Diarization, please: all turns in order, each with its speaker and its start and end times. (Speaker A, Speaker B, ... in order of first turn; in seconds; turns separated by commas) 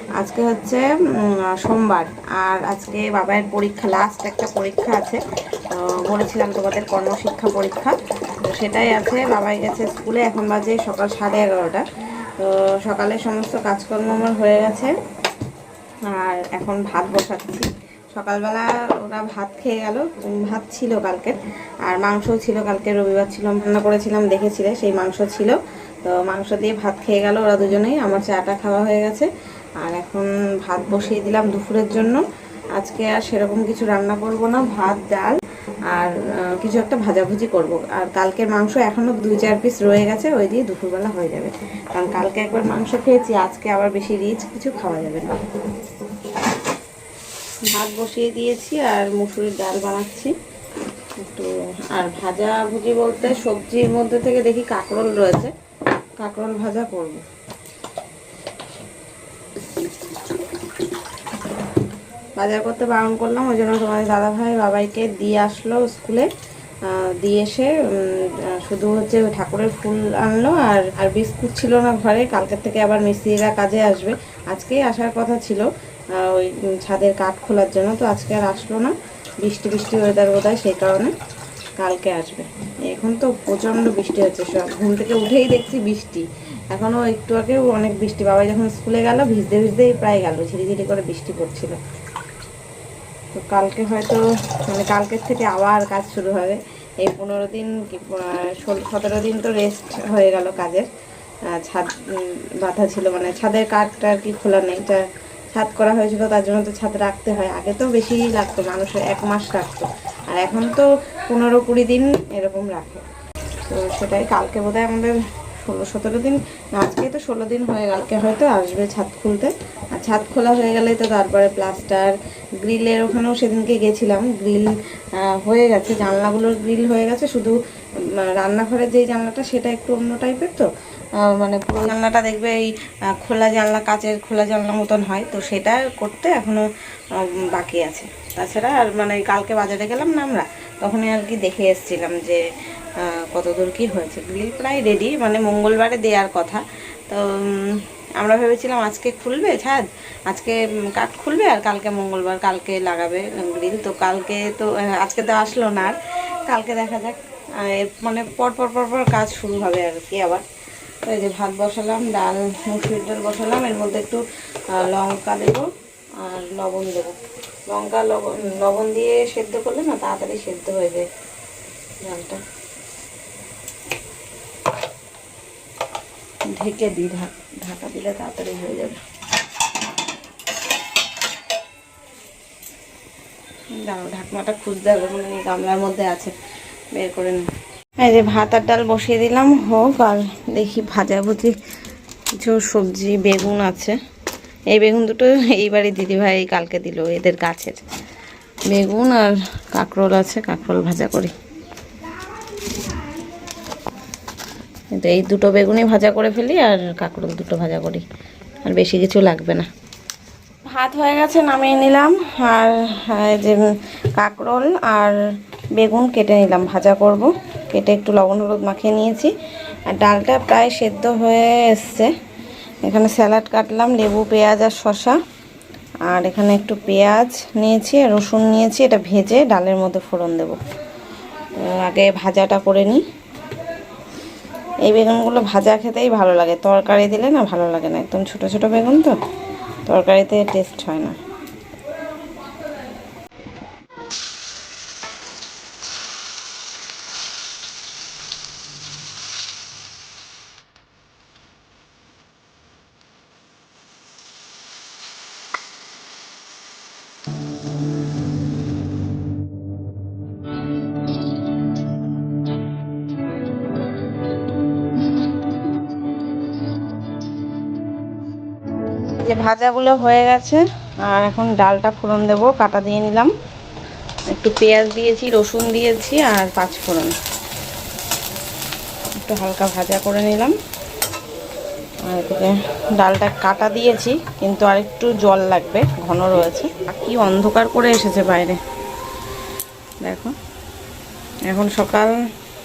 Speaker A: 0.2-11.9, Speaker A: 12.4-14.9, Speaker A: 16.1-29.3, Speaker A: 29.8-32.2, Speaker A: 32.8-35.4, Speaker A: 35.9-45.4, Speaker A: 47.7-50.3, Speaker A: 51.2-55.5, Speaker A: 56.2-57.2, Speaker A: 62.4-66.3, Speaker A: 66.9-81.1, Speaker A: 81.8-91.8, Speaker A: 93.3-100.9, Speaker A: 101.5-113.0, Speaker A: 113.7-127.6, Speaker A: 128.1-142.5, Speaker A: 143.0-160.4, Speaker A: 161.1-171.1, Speaker A: 172.0-172.4, Speaker A: 176.5-179.0, Speaker A: 183.8-186.3, Speaker A: 186.9-187.5, Speaker A: 188.0-191.6, Speaker A: 192.4-194.0, Speaker A: 194.7-197.8, Speaker A: 198.7-201.3, Speaker A: 204.9-208.1, Speaker A: 208.7-209.7, Speaker A: 210.7-215.2, Speaker A: 215.8-219.3, Speaker A: 219.9-222.1, Speaker A: 222.8-225.2, Speaker A: 226.1-230.6, Speaker A: 231.6-233.1, Speaker A: 234.8-239.2, Speaker A: 239.9-241.2, Speaker A: 269.2-273.3, Speaker A: 274.3-277.1, Speaker A: 279.2-280.6, Speaker A: 282.1-288.6, Speaker A: 290.0-290.4, Speaker A: 291.5-292.2